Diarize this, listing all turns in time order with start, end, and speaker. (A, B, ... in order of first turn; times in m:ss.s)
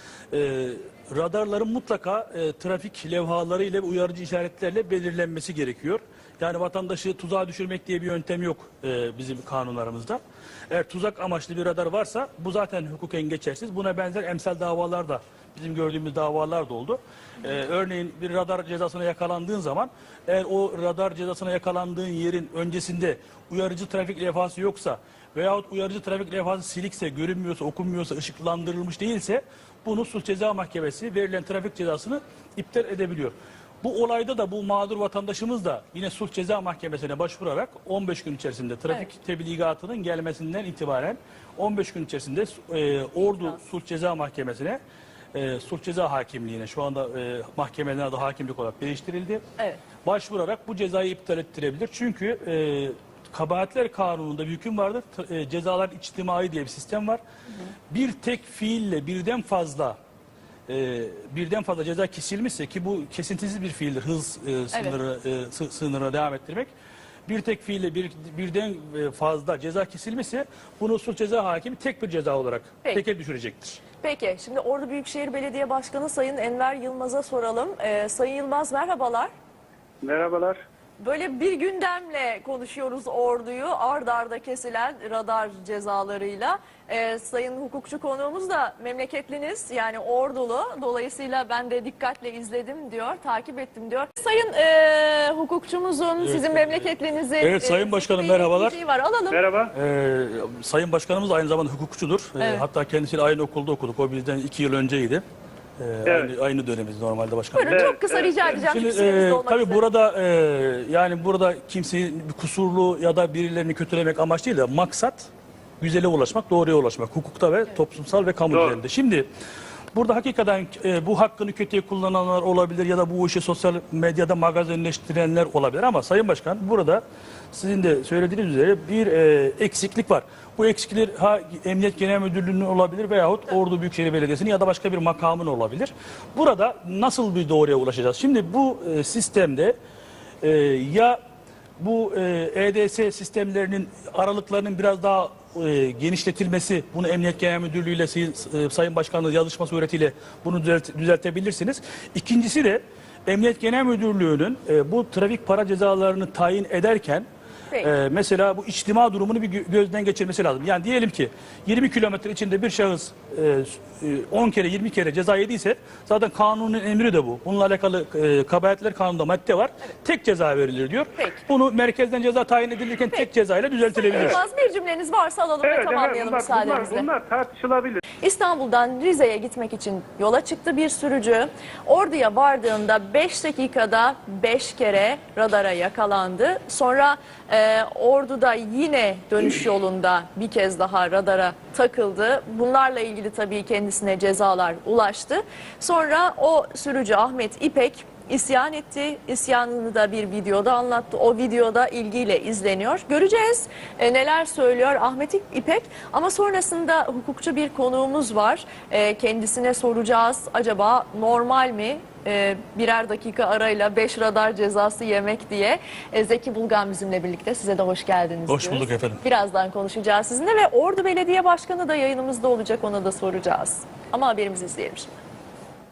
0:00.3-0:44.8 A
0:43.2-0:43.6 B
0:45.3-0:49.4 A
0:50.0-0:57.2 A
0:57.5-0:57.7 B
0:57.9-1:00.0 A
1:00.7-1:06.7 A
1:07.3-1:13.8 A
1:14.0-1:19.3 B
1:20.0-1:20.6 C
1:21.0-1:39.4 B
1:36.2-1:38.8 A
1:39.3-1:39.7 C
1:39.7-1:45.2 A
1:42.4-1:42.6 B
1:45.8-1:48.0 A
1:46.0-1:46.3 C
1:47.5-1:49.8 B
1:47.7-1:48.6 C
1:48.5-1:55.3 A
1:55.8-1:59.2 A
1:58.5-1:58.8 C
1:59.9-2:19.7 A
2:20.4-2:21.2 A
2:21.8-2:37.2 A
2:37.8-2:54.4 A
2:51.2-2:51.4 B
2:54.0-2:57.1 B
2:54.1-2:54.4 C
2:55.6-2:58.0 C
2:58.2-3:45.2 B
3:38.5-3:39.2 A